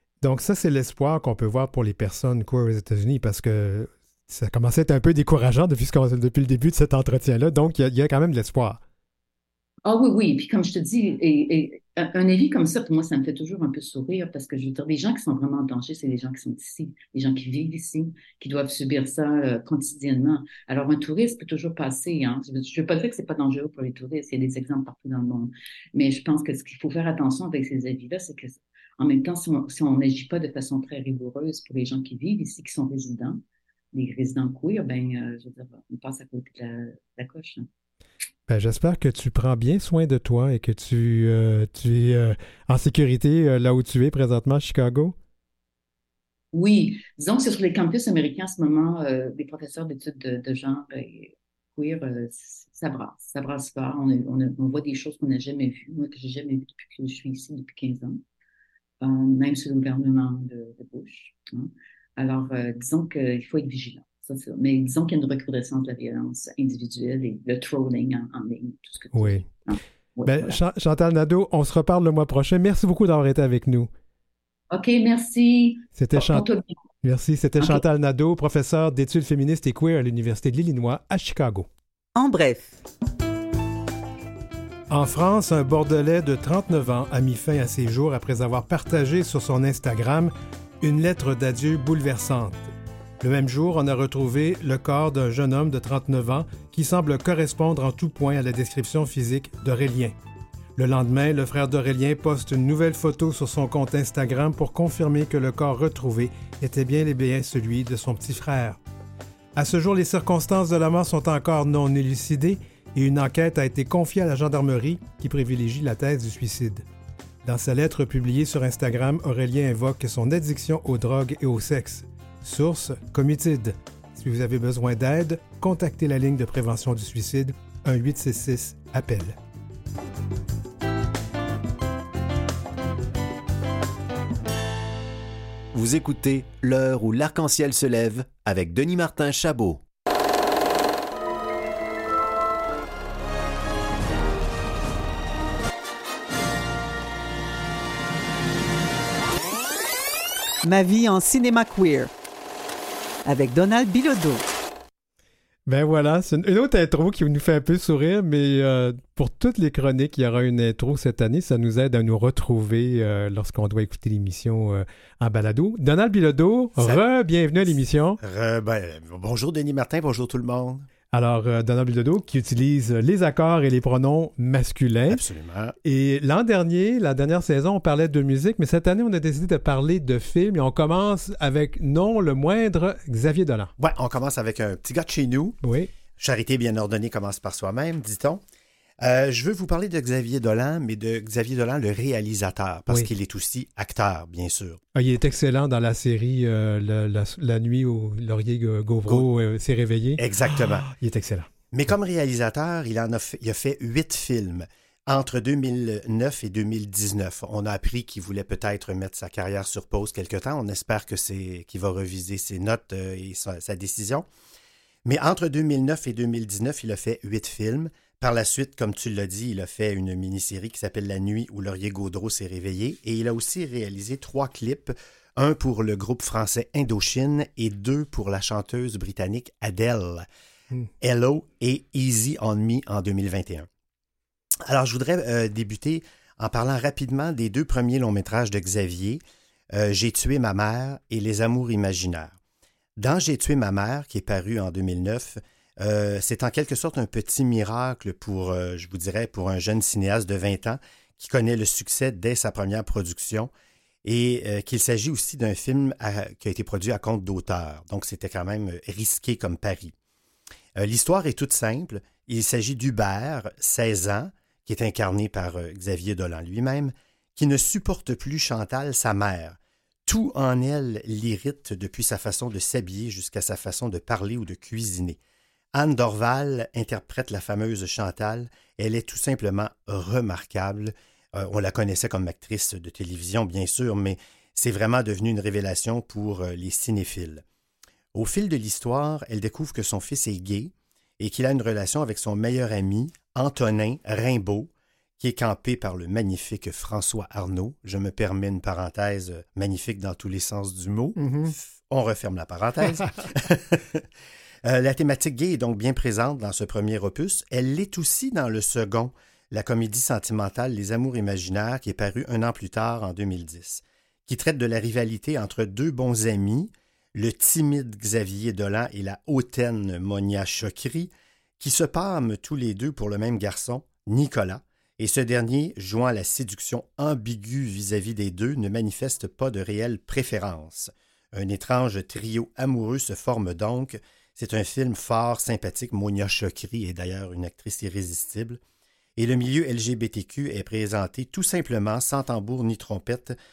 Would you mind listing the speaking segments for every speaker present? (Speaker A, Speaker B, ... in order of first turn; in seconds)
Speaker A: 0.2-8.8, 38.5-45.1, 69.1-69.5, 70.3-73.9, 76.0-76.4, 77.0-81.7, 84.9-100.1, 100.8-108.8, 109.5-116.8, 117.4-129.4, 155.7-168.2, 171.1-175.2, 175.8-183.7, 185.6-185.9, 194.9-201.5, 301.2-301.5
Speaker B: 9.8-33.4, 33.9-37.7, 46.5-58.2, 59.0-70.5, 74.7-76.7
Speaker C: 82.2-82.7, 150.6-152.1, 153.2-154.4
Speaker D: 135.7-139.8
Speaker E: 168.2-170.8, 175.1-175.7, 183.8-185.6, 186.2-188.4, 189.0-194.8, 200.2-200.9, 201.7-214.2, 215.0-230.2, 231.0-233.7, 234.6-239.2, 239.7-242.3, 243.0-253.5, 254.0-259.9, 260.8-275.2, 275.7-287.4, 288.1-304.0, 304.6-338.6, 339.2-343.3